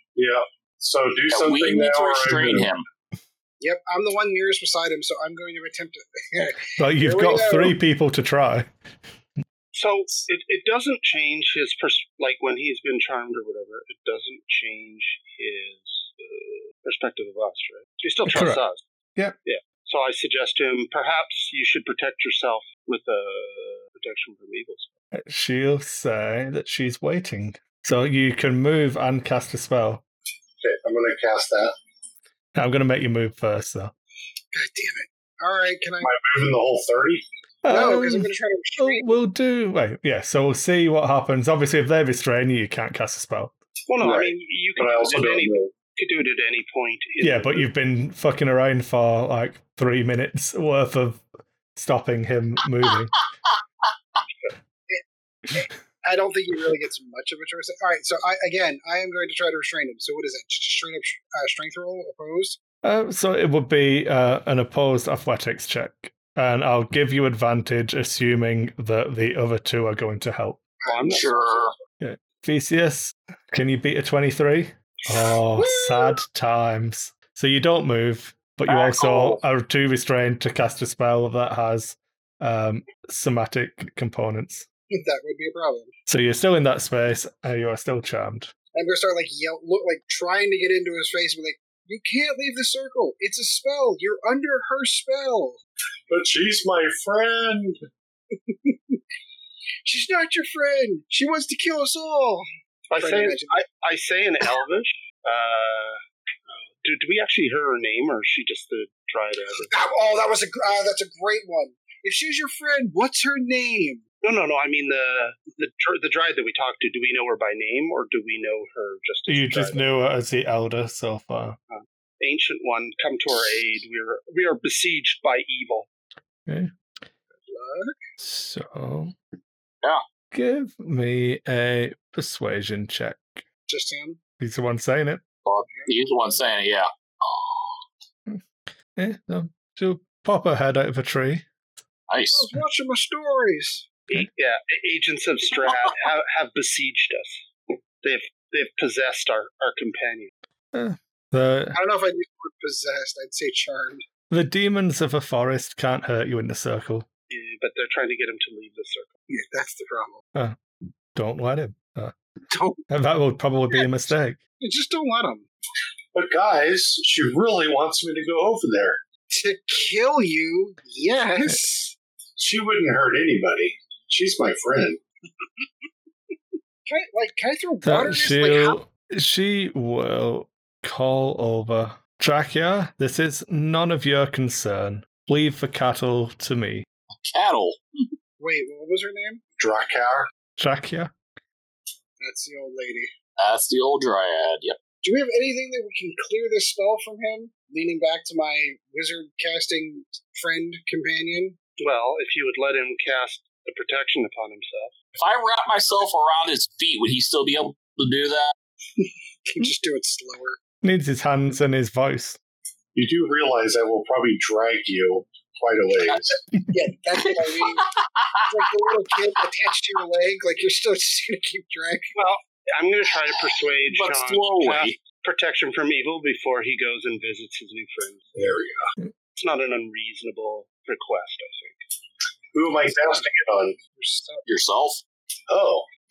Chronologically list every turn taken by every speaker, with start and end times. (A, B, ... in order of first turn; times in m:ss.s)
0:00.2-0:02.7 A
0:01.3-0:02.8 B
0:03.6-0:07.8 C
0:06.8-0:08.7 D
0:09.7-0:18.8 E
0:18.3-0:18.6 D
0:19.5-0:24.9 E
0:25.1-0:30.0 D
0:30.6-0:31.8 A
0:32.6-0:33.9 D
0:34.5-0:36.1 C
0:36.0-0:37.2 A
0:37.6-0:43.6 D
0:37.7-0:39.2 C
0:43.9-0:47.7 E
0:44.0-0:45.7 A
0:47.2-0:51.2 D
0:51.8-0:53.2 D
0:54.9-1:02.6 C
1:02.8-1:10.6 D
1:10.8-1:11.2 C
1:10.9-1:11.7 E
1:11.1-1:11.7 B
1:12.0-1:24.7 D
1:15.6-1:16.2 C
1:18.7-1:19.4 B
1:24.9-1:25.9 C
1:26.1-1:28.5 D
1:28.7-1:35.6 C
1:36.1-1:37.8 A
1:38.5-1:39.0 C
1:39.8-1:43.6 C
1:42.9-1:46.0 E
1:46.5-1:49.7 E
1:49.7-1:54.0 C
1:54.2-1:59.9 E
1:59.3-2:01.6 D
2:01.7-2:05.9 E
2:06.5-2:06.7 D
2:07.5-2:08.0 C
2:08.2-2:09.2 D
2:10.3-2:13.4 D
2:13.7-2:14.2 C
2:14.4-2:15.2 D
2:15.4-2:17.8 B
2:15.7-2:16.4 C
2:18.3-2:21.5 D
2:22.1-2:22.5 B
2:22.3-2:23.9 C
2:24.1-2:27.5 E
2:28.0-2:30.3 E
2:30.7-2:31.8 D
2:31.7-2:34.0 C
2:34.3-2:37.1 D
2:37.3-2:39.1 E
2:39.3-2:40.2 C
2:41.1-2:42.2 D
2:42.5-2:42.8 C
2:42.9-2:44.4 D
2:44.6-2:45.4 C
2:46.1-2:49.0 A
2:49.3-2:52.0 C
2:52.4-2:55.0 A
2:56.9-2:58.8 C
2:57.8-3:06.9 D
3:07.2-3:07.8 B
3:08.4-3:09.4 C
3:09.6-3:10.3 A
3:10.6-3:11.1 D
3:12.2-3:13.1 C
3:13.4-3:14.8 B
3:15.0-3:21.6 C
3:21.8-3:24.9 E
3:25.2-3:28.6 B
3:29.0-3:30.6 C
3:30.8-3:32.4 D
3:33.0-3:36.4 A
3:36.7-3:37.9 C
3:37.2-3:38.9 B
3:38.4-3:42.1 C
3:42.2-3:48.2 E
3:43.9-3:45.0 B
3:48.4-3:48.8 A
3:49.4-3:51.8 E
3:52.5-3:53.8 A
3:54.0-3:54.5 C
3:54.5-3:55.0 B
3:55.5-3:55.9 A